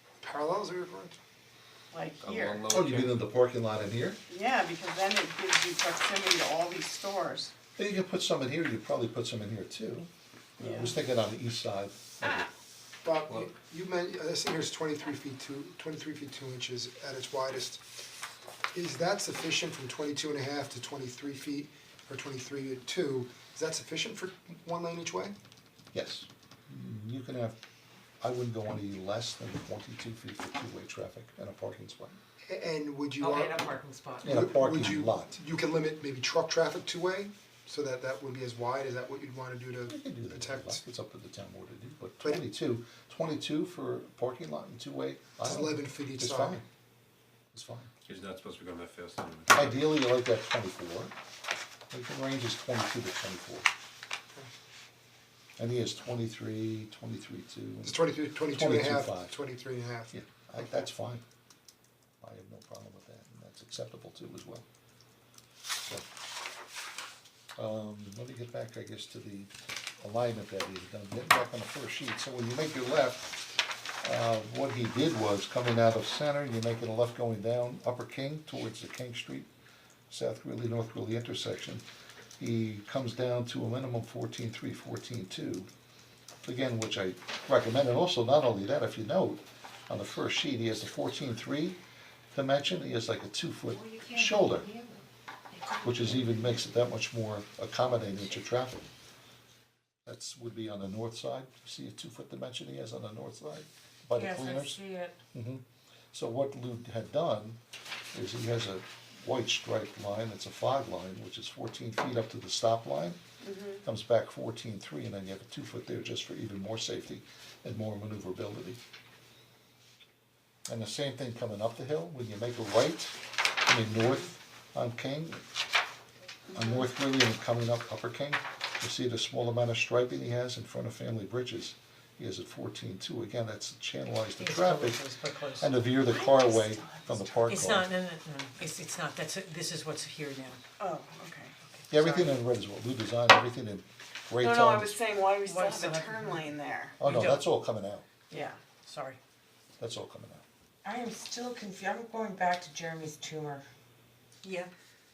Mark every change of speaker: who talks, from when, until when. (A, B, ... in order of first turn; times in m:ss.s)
0:00.2-0:01.2 A
0:01.9-0:02.7 B
0:02.2-0:03.2 C
0:02.7-0:04.2 D
0:04.3-0:07.5 B
0:07.8-0:12.5 D
0:10.6-0:11.0 B
0:13.0-0:17.8 A
0:18.7-0:25.3 A
0:25.9-0:27.6 D
0:28.2-0:32.2 D
0:32.5-0:33.6 A
0:33.2-0:34.5 E
0:34.2-0:35.4 D
0:34.2-0:40.8 A
0:39.9-0:46.6 D
0:45.4-0:46.6 A
0:47.5-0:47.9 D
0:48.0-0:50.0 C
0:49.5-0:51.1 D
0:51.9-0:53.6 D
0:55.6-0:59.4 D
0:57.8-1:00.1 A
1:00.1-1:01.2 D
1:02.2-1:04.6 D
1:07.6-1:13.5 D
1:14.0-1:19.5 D
1:20.1-1:21.8 D
1:22.4-1:25.7 D
1:26.4-1:31.8 D
1:32.3-1:34.7 D
1:33.7-1:36.4 E
1:35.8-1:38.9 D
1:40.0-1:44.8 D
1:44.1-1:45.2 E
1:45.3-1:47.6 D
1:48.1-1:53.2 D
1:53.4-1:53.8 B
1:53.8-1:58.8 D
2:00.7-2:05.4 D
2:06.5-2:06.8 B
2:06.5-2:15.0 D
2:14.4-2:15.8 F
2:15.6-2:17.9 D
2:16.1-2:17.6 B
2:17.5-2:20.6 F
2:20.8-2:22.3 B
2:21.9-2:24.9 D
2:24.4-2:27.0 B
2:25.4-2:27.5 F
2:27.0-2:28.1 D
2:28.3-2:28.6 B
2:28.3-2:29.2 F
2:29.8-2:30.4 D
2:30.8-2:33.6 E
2:34.4-2:34.7 F